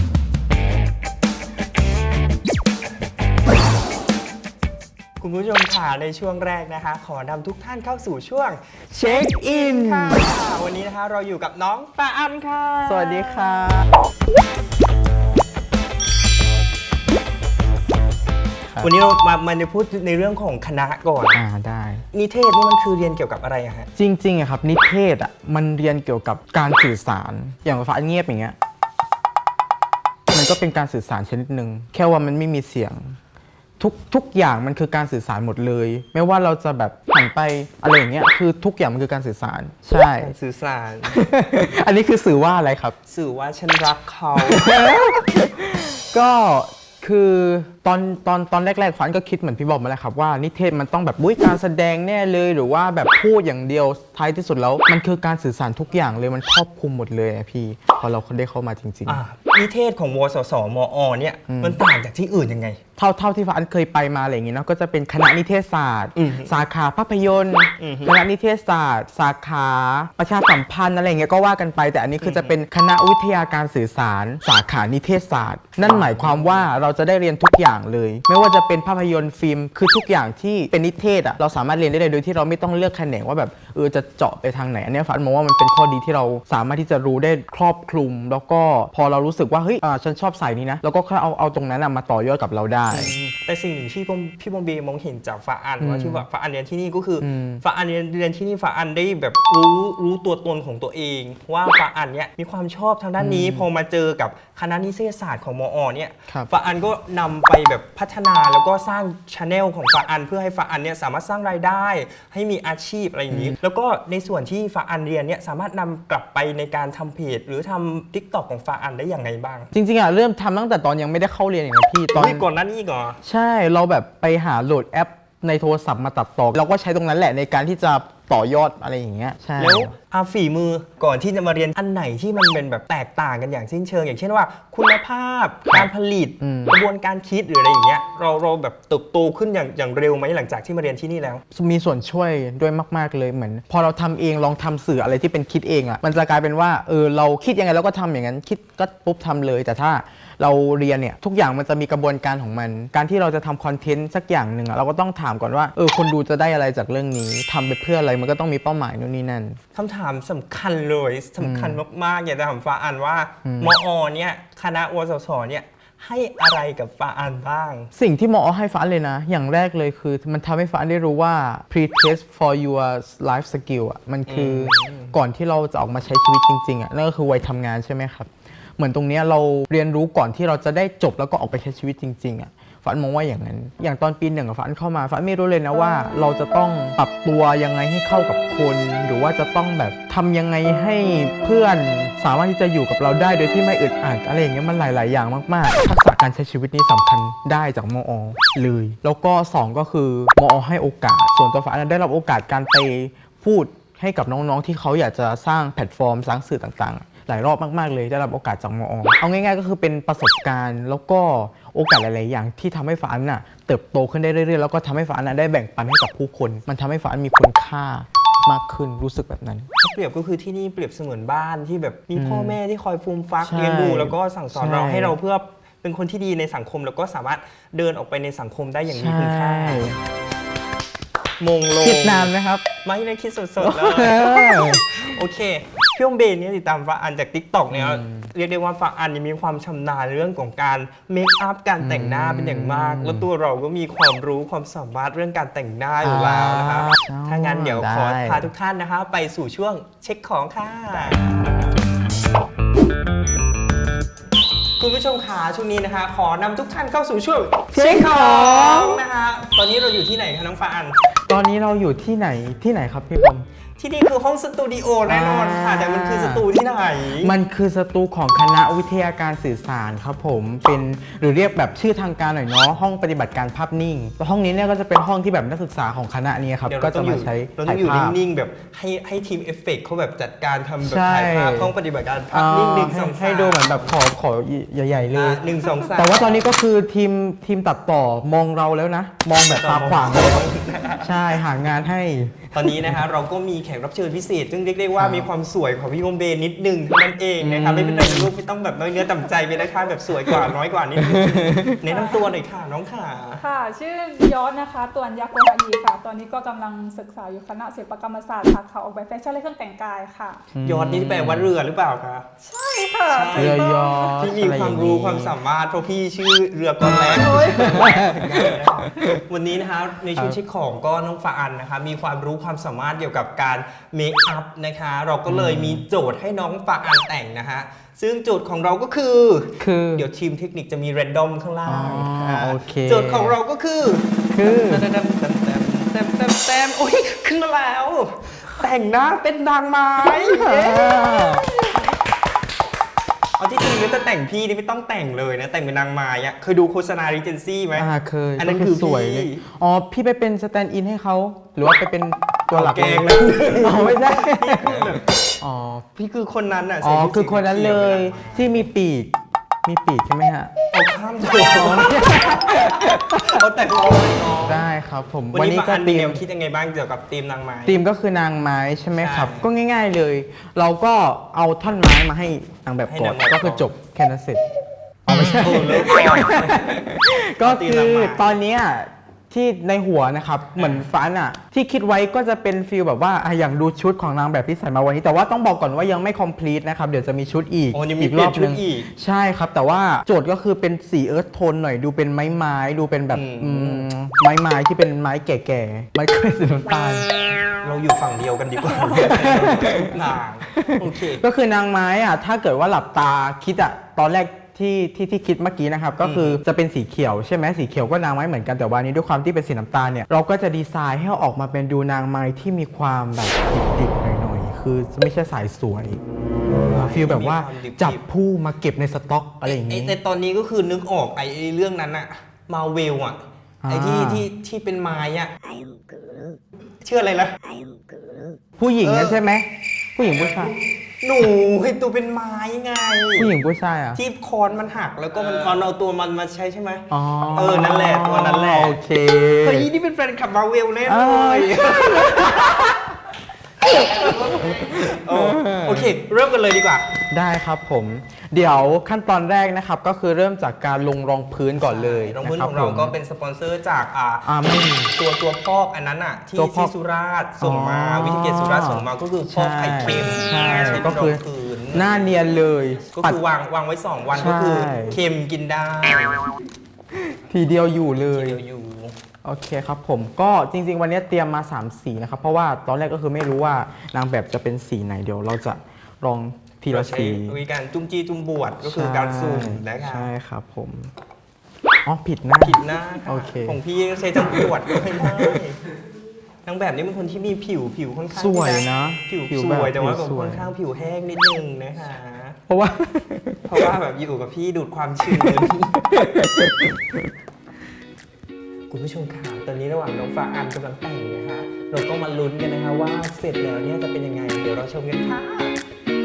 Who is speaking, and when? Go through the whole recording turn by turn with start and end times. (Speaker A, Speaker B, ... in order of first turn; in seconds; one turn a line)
Speaker A: 5.2-13.6
Speaker B: 8.9-10.3
Speaker B: 12.8-13.9
Speaker A: 18.8-21.4
Speaker B: 21.3-22.0
Speaker A: 22.1-23.9
Speaker B: 23.9-28.5
Speaker B: 30.3-33.1
Speaker B: 33.8-40.3
Speaker A: 40.2-41.2
Speaker B: 41.1-43.0
Speaker A: 43.1-44.9
Speaker B: 44.4-59.2
Speaker A: 59.0-62.8
Speaker B: 61.5-61.8
Speaker B: 63.0-93.2
Speaker A: 66.1-66.5
Speaker A: 67.8-68.2
Speaker A: 72.2-72.5
Speaker A: 75.8-76.7
Speaker A: 92.9-119.7
Speaker B: 95.8-96.2
Speaker B: 97.2-97.6
Speaker B: 103.2-103.7
Speaker B: 113.3-113.6
Speaker B: 119.7-122.5
Speaker A: 122.1-123.2
Speaker B: 123.2-129.9
Speaker A: 129.6-141.4
Speaker B: 136.4-136.8
Speaker B: 141.5-159.6
Speaker A: 159.7-167.9
Speaker B: 161.4-161.8
Speaker B: 163.4-163.7
Speaker B: 167.9-219.7
Speaker A: 174.3-175.1
Speaker A: 219.8-229.9
Speaker B: 222.2-222.6
Speaker B: 223.4-225.1
Speaker B: 228.9-230.0
Speaker A: 231.4-232.3
Speaker B: 231.8-232.6
Speaker A: 232.8-251.4
Speaker B: 233.6-235.1
Speaker B: 237.7-238.3
Speaker B: 241.8-243.3
Speaker B: 246.0-248.4
Speaker A: 254.8-261.0
Speaker B: 257.7-259.0
Speaker B: 261.3-263.4
Speaker A: 263.8-267.3
Speaker B: 265.1-266.4
Speaker B: 267.2-278.2
Speaker A: 276.6-283.9
Speaker B: 280.8-281.7
Speaker B: 282.3-290.5
Speaker A: 285.1-286.5
Speaker A: 289.4-291.4
Speaker B: 291.0-292.9
Speaker A: 292.5-303.4
Speaker B: 295.0-295.3
Speaker B: 297.4-298.3
Speaker B: 301.0-301.7
Speaker C: 301.9-302.3
Speaker C: 303.4-310.4
Speaker B: 310.5-311.5
Speaker A: 310.6-312.2
Speaker C: 312.4-314.2
Speaker A: 313.1-341.9
Speaker B: 313.3-315.3
Speaker B: 316.8-319.1
Speaker C: 317.1-317.9
Speaker B: 325.3-325.8
Speaker B: 329.6-330.0
Speaker B: 331.6-333.4
Speaker B: 334.3-334.8
Speaker B: 340.0-341.4
Speaker A: 343.4-349.4
Speaker B: 347.7-355.9
Speaker A: 352.5-355.1
Speaker A: 355.9-358.7
Speaker B: 356.8-359.1
Speaker B: 359.6-360.5
Speaker A: 360.7-364.6
Speaker B: 361.2-363.3
Speaker B: 364.4-366.2
Speaker A: 365.3-367.8
Speaker B: 367.6-374.5
Speaker A: 369.0-369.5
Speaker A: 372.9-373.7
Speaker B: 375.1-397.1
Speaker A: 375.2-378.3
Speaker A: 380.6-380.9
Speaker A: 387.7-388.9
Speaker A: 393.1-393.9
Speaker A: 397.6-401.2
Speaker B: 398.8-399.9
Speaker B: 400.6-416.0
Speaker A: 406.0-406.4
Speaker A: 416.5-418.0
Speaker B: 416.5-419.9
Speaker A: 419.4-425.5
Speaker B: 423.6-424.2
Speaker A: 426.8-427.6
Speaker B: 428.6-430.5
Speaker A: 428.8-429.2
Speaker A: 430.0-433.3
Speaker B: 433.1-434.0
Speaker A: 433.9-438.8
Speaker B: 436.9-439.7
Speaker A: 439.4-442.7
Speaker B: 440.9-442.8
Speaker A: 443.6-446.9
Speaker B: 443.6-445.9
Speaker B: 447.1-452.9
Speaker A: 451.6-462.2
Speaker B: 454.2-454.9
Speaker B: 456.3-456.7
Speaker B: 457.4-461.2
Speaker B: 461.7-463.2
Speaker A: 462.9-466.2
Speaker B: 464.1-465.0
Speaker B: 466.9-468.4
Speaker A: 468.1-468.9
Speaker B: 469.2-477.4
Speaker A: 476.7-480.1
Speaker B: 478.6-480.9
Speaker B: 481.9-483.6
Speaker A: 482.4-485.6
Speaker B: 484.1-485.3
Speaker A: 486.4-492.4
Speaker B: 488.1-490.5
Speaker B: 492.5-493.7
Speaker A: 493.4-496.0
Speaker B: 495.1-497.0
Speaker A: 498.7-505.5